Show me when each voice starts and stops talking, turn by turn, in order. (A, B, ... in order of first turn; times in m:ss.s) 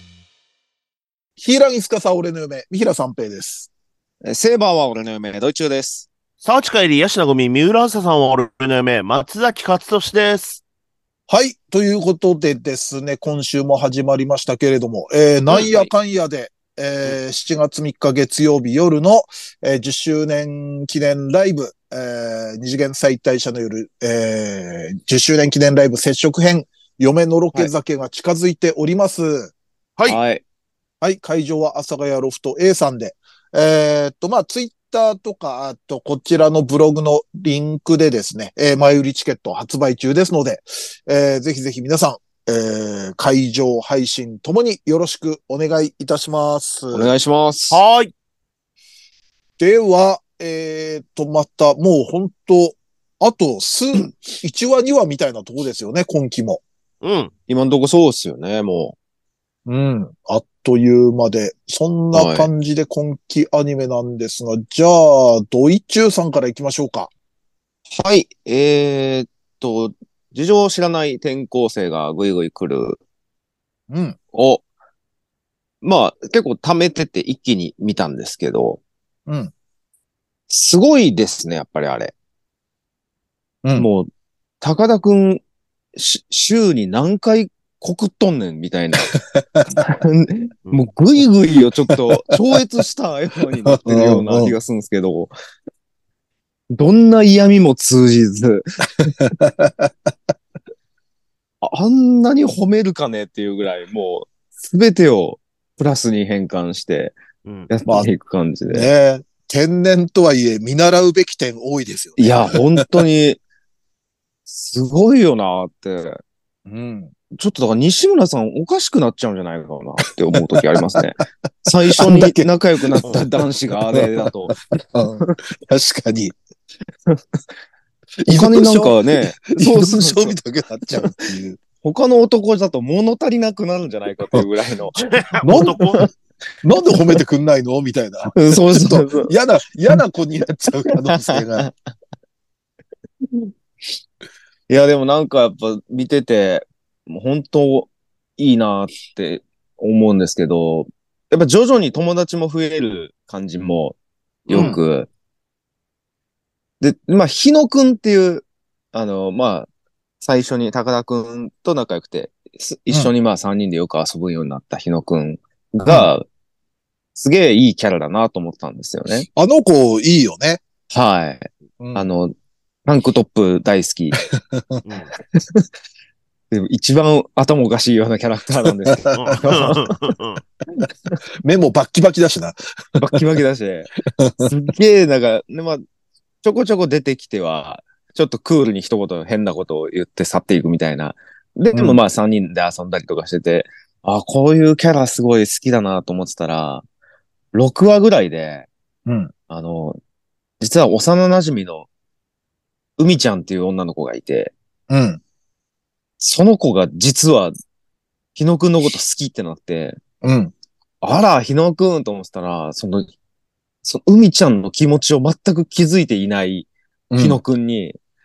0:01.4-0:03.7 A
0:04.2-0:06.1 B
0:06.4-0:10.6 C
0:11.3-0:29.5 A
0:15.5-0:15.9 B
0:30.1-0:30.4 B
0:31.0-0:47.1 A
0:46.9-0:47.8 B
0:47.7-0:48.1 C
0:49.6-0:56.6 A
0:57.0-0:57.3 C
0:57.5-0:59.0 B
0:59.7-1:07.1 A
1:02.1-1:02.5 B
1:08.0-1:13.0 B
1:13.9-1:14.2 A
1:14.3-1:14.6 B
1:15.8-1:18.8 B
1:19.3-1:19.5 A
1:20.5-1:22.1 B
1:23.8-1:24.1 B
1:24.6-1:25.4 B
1:26.0-1:29.1 B
1:29.1-1:29.7 A
1:29.7-1:35.3 B
1:31.9-1:32.2 A
1:33.7-1:34.6 A
1:36.7-1:39.2 B
1:39.2-1:39.9 A
1:41.6-1:47.2 B
1:47.4-1:47.7 C
1:47.7-1:48.9 B
1:48.7-1:52.9 A
1:52.2-1:53.4 B
1:54.5-1:56.2 B
1:56.7-1:57.1 A
1:57.3-2:04.6 B
2:00.4-2:01.0 A
2:01.9-2:03.0 A
2:03.9-2:06.4 A
2:08.2-2:11.6 A
2:08.3-2:10.3 B
2:11.8-2:16.1 B
2:15.0-2:16.1 C
2:15.4-2:15.8 A
2:16.6-2:21.7 A
2:18.3-2:19.3 B
2:21.1-2:21.7 B
2:24.7-2:35.1 B
2:34.5-2:34.8 C
2:34.5-2:34.8 A
2:36.8-2:39.7 B
2:40.2-2:46.2 B
2:47.1-2:49.3 B
2:49.3-2:50.6 A
2:50.9-2:52.3 B
2:51.8-2:52.1 A
2:52.8-2:54.2 B
2:54.3-2:54.8 A
2:54.8-2:55.1 C
2:55.3-2:55.6 B
2:56.5-2:59.9 B
2:58.6-2:59.8 A
2:59.1-3:00.4 C
3:01.4-3:03.2 A
3:03.0-3:05.8 B
3:04.1-3:04.5 A
3:06.4-3:16.8 B
3:11.7-3:12.0 A
3:17.5-3:18.7 B
3:19.0-3:19.3 A
3:19.5-3:20.0 B
3:20.6-3:21.9 B
3:23.0-3:24.5 B
3:24.9-3:25.2 A
3:26.2-3:27.5 B
3:28.4-3:30.0 B
3:30.2-3:30.5 A
3:31.0-3:33.1 B
3:33.8-3:38.0 B
3:37.1-3:37.4 A